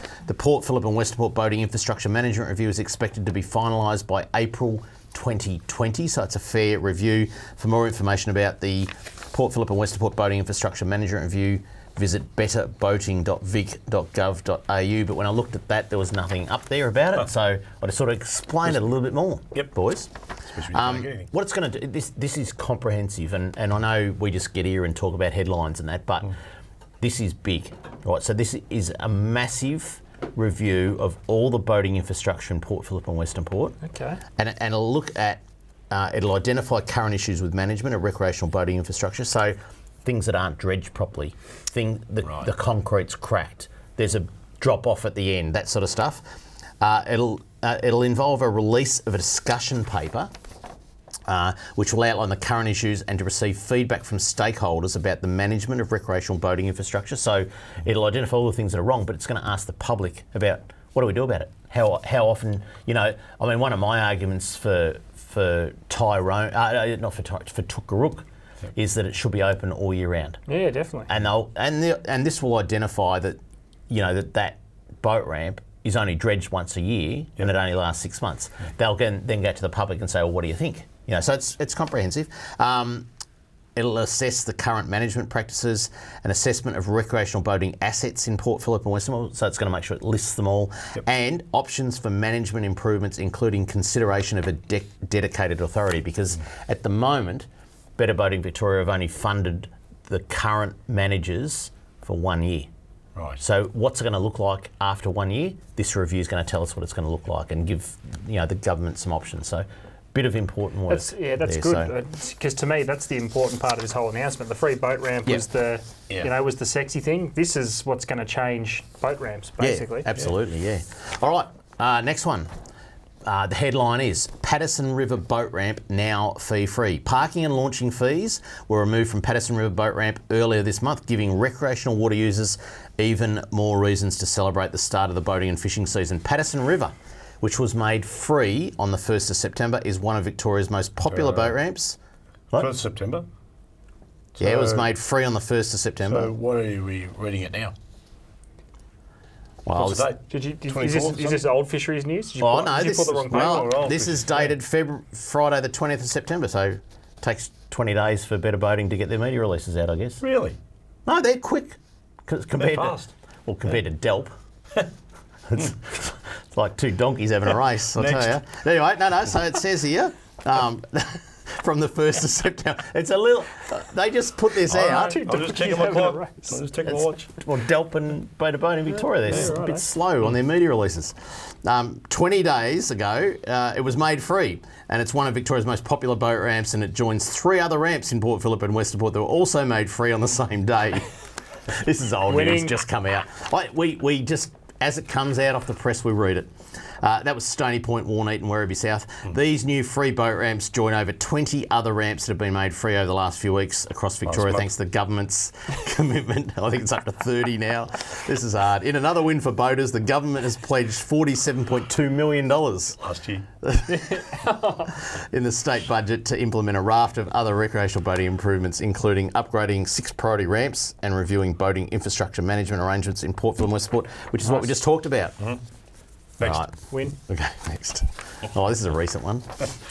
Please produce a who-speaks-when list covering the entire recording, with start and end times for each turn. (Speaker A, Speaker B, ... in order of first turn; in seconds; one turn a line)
Speaker A: 0.2-20.1
Speaker B: 20.5-21.3
Speaker A: 20.7-26.4
Speaker A: 27.0-33.8
Speaker C: 33.8-34.2
Speaker A: 34.4-46.2
Speaker B: 42.2-42.5
Speaker A: 46.8-50.3
Speaker A: 51.2-70.4
Speaker C: 70.5-71.1
Speaker A: 71.1-73.4
Speaker A: 73.9-83.1
Speaker A: 83.8-102.7
Speaker B: 103.1-103.4
Speaker A: 103.4-111.9
Speaker C: 110.9-120.1
Speaker A: 119.6-122.5
Speaker A: 123.2-142.0
Speaker B: 141.1-141.6
Speaker B: 142.6-143.2
Speaker B: 144.3-144.9
Speaker A: 144.4-146.3
Speaker B: 146.0-147.8
Speaker A: 149.6-150.1
Speaker B: 149.7-151.5
Speaker C: 150.3-153.9
Speaker A: 152.4-160.2
Speaker B: 153.1-154.5
Speaker B: 160.2-160.6
Speaker A: 161.1-164.4
Speaker B: 162.6-163.1
Speaker A: 165.5-175.3
Speaker B: 168.0-168.4
Speaker B: 174.7-177.3
Speaker C: 174.8-176.6
Speaker A: 176.8-191.1
Speaker C: 178.9-179.9
Speaker A: 191.7-213.0
Speaker C: 192.3-192.8
Speaker B: 204.2-204.7
Speaker B: 213.0-213.5
Speaker A: 213.6-225.4
Speaker C: 213.9-214.9
Speaker C: 224.4-224.7
Speaker B: 226.4-226.7
Speaker A: 226.4-229.6
Speaker C: 226.9-227.2